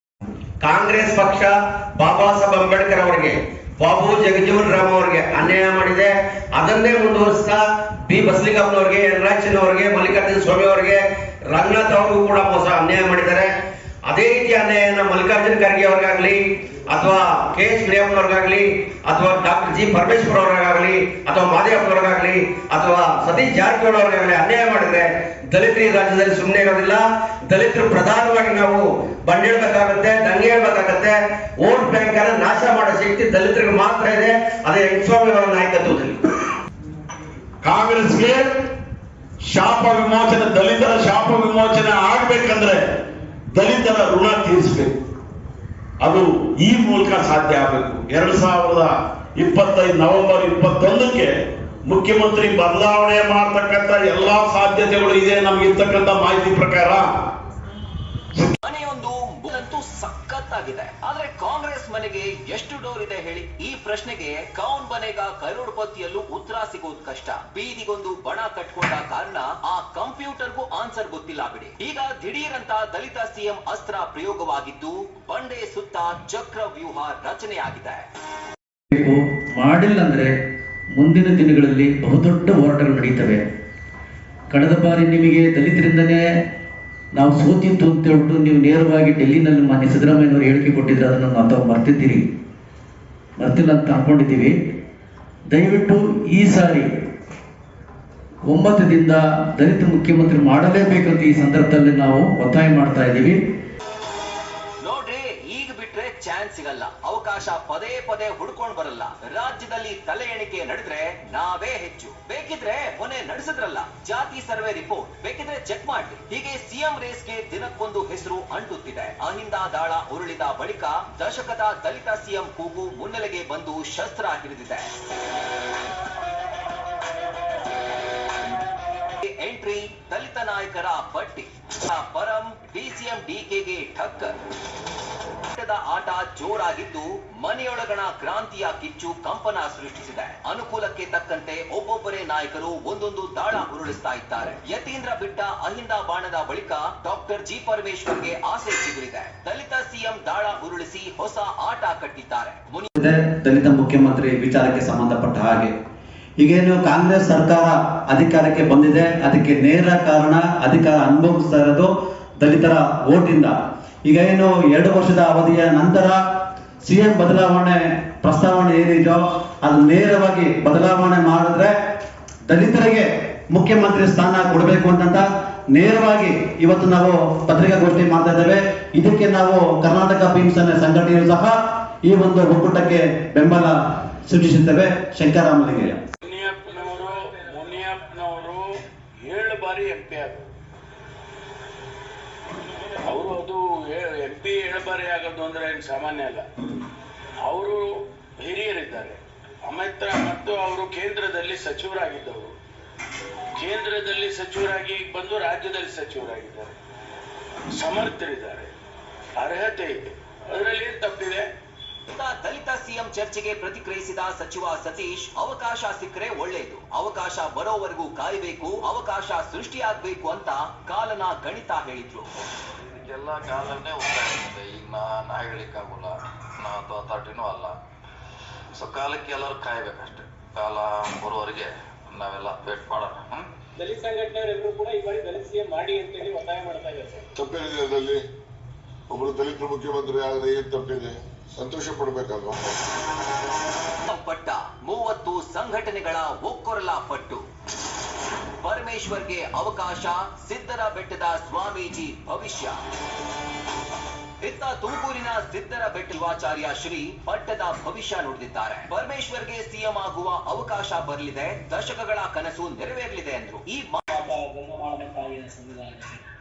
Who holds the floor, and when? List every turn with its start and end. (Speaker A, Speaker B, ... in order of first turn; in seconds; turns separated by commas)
Speaker A: 0.6-13.5, Speaker A: 14.1-36.2, Speaker B: 37.6-38.5, Speaker B: 39.4-42.8, Speaker B: 43.5-45.0, Speaker B: 46.0-57.1, Speaker C: 58.6-78.1, Speaker D: 78.9-80.3, Speaker D: 81.0-83.4, Speaker D: 84.5-86.2, Speaker D: 87.2-92.2, Speaker D: 93.4-94.5, Speaker D: 95.5-96.9, Speaker D: 98.5-103.4, Speaker C: 104.8-124.9, Speaker C: 129.2-134.3, Speaker C: 135.5-152.9, Speaker E: 153.0-155.7, Speaker E: 156.4-163.5, Speaker E: 164.1-166.2, Speaker E: 166.8-171.8, Speaker E: 172.5-186.0, Speaker F: 186.2-188.7, Speaker F: 189.2-190.5, Speaker F: 193.1-196.5, Speaker F: 197.4-202.5, Speaker F: 203.6-206.8, Speaker F: 207.8-208.7, Speaker F: 209.4-211.4, Speaker C: 212.1-222.3, Speaker G: 222.8-227.8, Speaker G: 228.7-233.5, Speaker H: 233.8-237.2, Speaker I: 237.3-238.2, Speaker I: 239.1-242.6, Speaker C: 244.0-247.4, Speaker C: 248.6-252.8, Speaker C: 254.4-264.0, Speaker D: 264.1-266.2